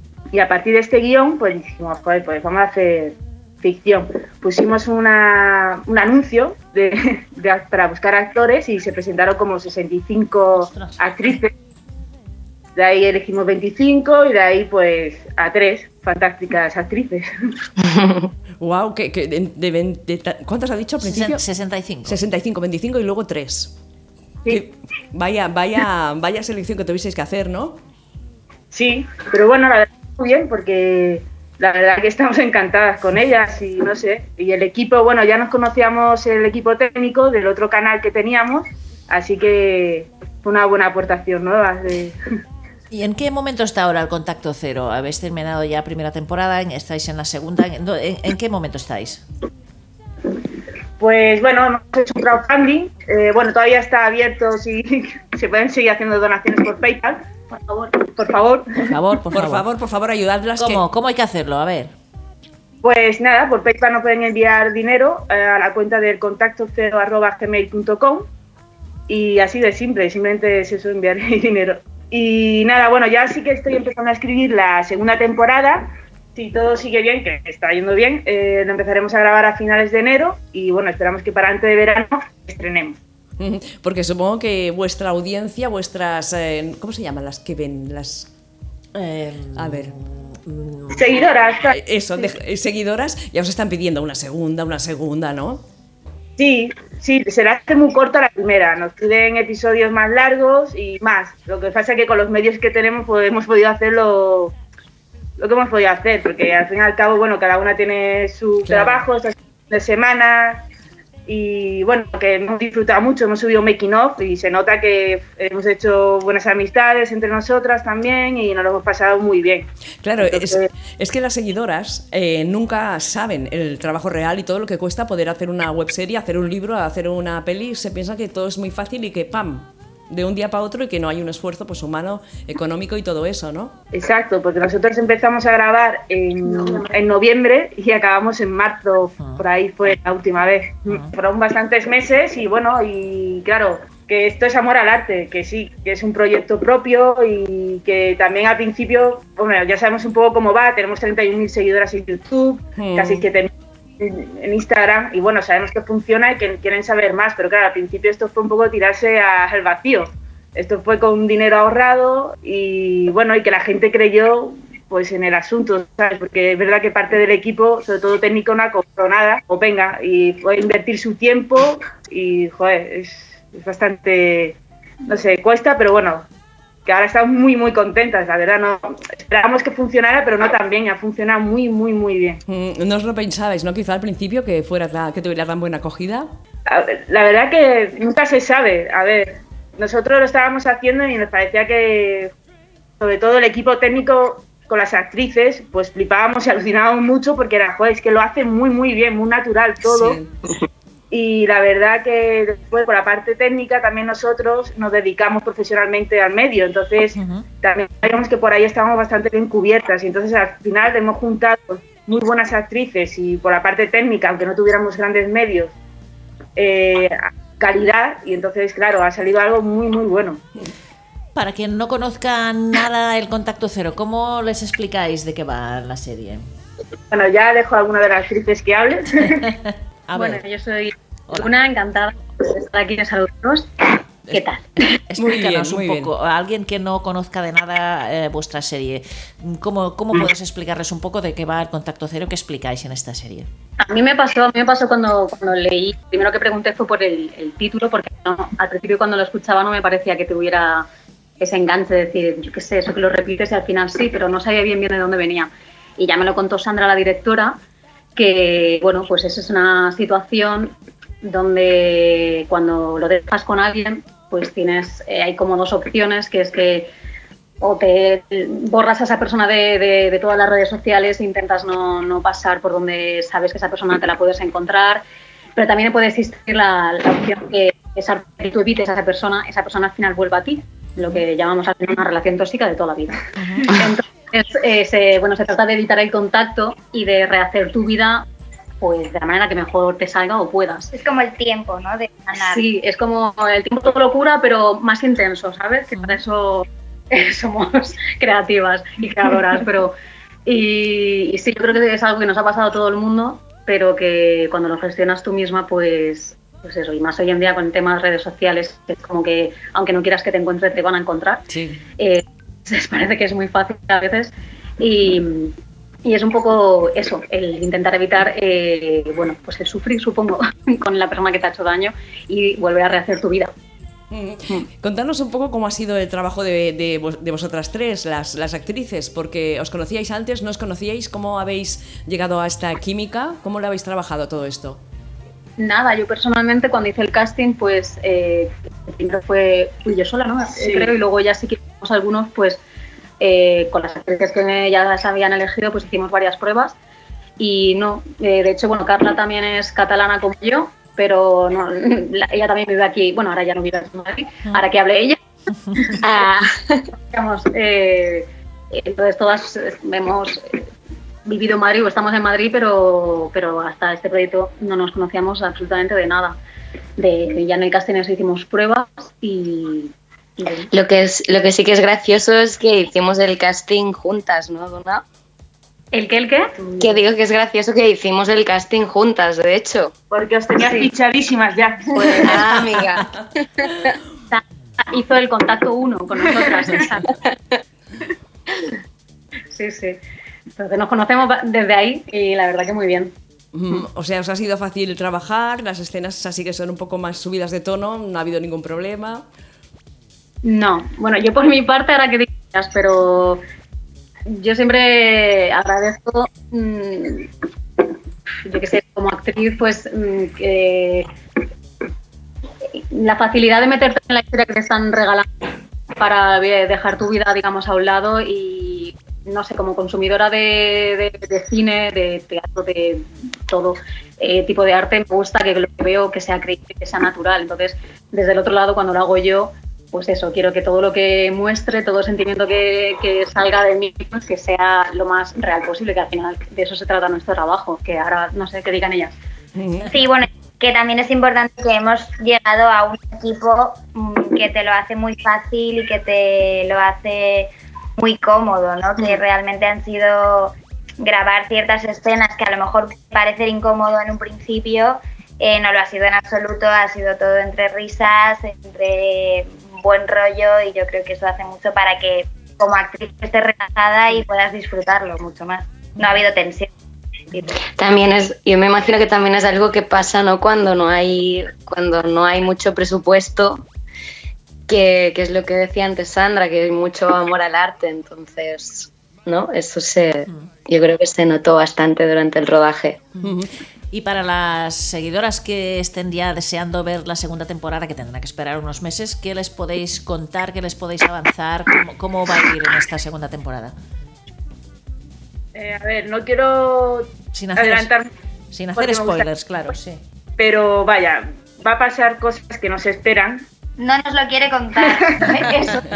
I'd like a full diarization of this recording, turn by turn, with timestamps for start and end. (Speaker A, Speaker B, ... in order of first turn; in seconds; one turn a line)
Speaker A: 0.3-11.5
Speaker B: 10.6-11.3
Speaker A: 12.8-17.3
Speaker C: 17.9-18.3
Speaker D: 18.6-21.4
Speaker B: 21.0-22.2
Speaker D: 22.1-23.7
Speaker D: 24.5-27.8
Speaker A: 28.7-42.2
Speaker B: 42.9-49.2
Speaker A: 51.0-57.2
Speaker E: 57.5-58.0
Speaker A: 58.1-58.8
Speaker B: 58.8-59.7
Speaker D: 59.3-60.8
Speaker B: 60.6-61.9
Speaker A: 62.8-68.3
Speaker A: 69.1-83.0
Speaker D: 83.4-88.3
Speaker B: 88.9-91.2
Speaker D: 89.6-89.9
Speaker A: 91.0-91.8
Speaker D: 91.7-95.6
Speaker A: 96.4-104.5
Speaker A: 105.4-110.6
Speaker A: 111.3-119.7
Speaker D: 120.0-133.8
Speaker A: 120.2-120.7
Speaker A: 133.9-176.3
Speaker E: 136.5-136.9
Speaker D: 152.8-153.2
Speaker A: 176.9-182.4
Speaker D: 182.5-186.3
Speaker A: 186.7-192.3
Speaker A: 193.0-200.2
Speaker D: 199.9-200.3
Speaker A: 201.1-215.7
Speaker B: 207.2-207.5
Speaker A: 216.6-220.4
Speaker B: 221.3-226.5
Speaker A: 227.1-229.5
Speaker B: 230.1-230.4
Speaker E: 230.2-234.7
Speaker B: 234.3-243.5
Speaker D: 235.2-236.1
Speaker E: 243.8-250.9
Speaker E: 251.4-257.6
Speaker E: 258.2-266.9
Speaker E: 267.6-275.0
Speaker E: 275.6-288.2
Speaker B: 283.4-283.7
Speaker E: 288.8-290.9
Speaker F: 290.9-292.6
Speaker E: 292.3-299.9
Speaker E: 300.5-311.5
Speaker D: 311.5-311.8
Speaker E: 312.0-323.5
Speaker D: 324.1-334.8
Speaker E: 335.6-342.6
Speaker A: 340.6-340.9
Speaker E: 343.2-346.8
Speaker E: 347.4-355.2
Speaker C: 356.0-356.9
Speaker E: 357.1-360.6
Speaker E: 361.3-366.4
Speaker E: 367.0-370.7
Speaker C: 370.7-375.0
Speaker E: 375.9-377.0
Speaker C: 376.8-379.9
Speaker A: 380.1-382.4
Speaker E: 380.6-380.9
Speaker C: 381.9-383.1
Speaker C: 383.6-383.9
Speaker E: 384.3-387.1
Speaker E: 389.5-390.0
Speaker E: 390.6-393.1
Speaker D: 393.5-399.2
Speaker E: 400.4-403.4
Speaker E: 404.3-407.3
Speaker E: 408.4-411.1
Speaker E: 412.7-415.3
Speaker E: 416.0-439.1
Speaker D: 439.6-439.9
Speaker F: 439.9-466.7
Speaker C: 467.6-473.6
Speaker C: 474.7-483.0
Speaker D: 483.2-483.5
Speaker B: 483.9-493.8
Speaker A: 495.6-498.1
Speaker B: 497.3-497.9
Speaker B: 498.5-500.0
Speaker A: 498.8-499.3
Speaker A: 500.4-503.5
Speaker F: 503.8-505.9
Speaker A: 505.1-505.4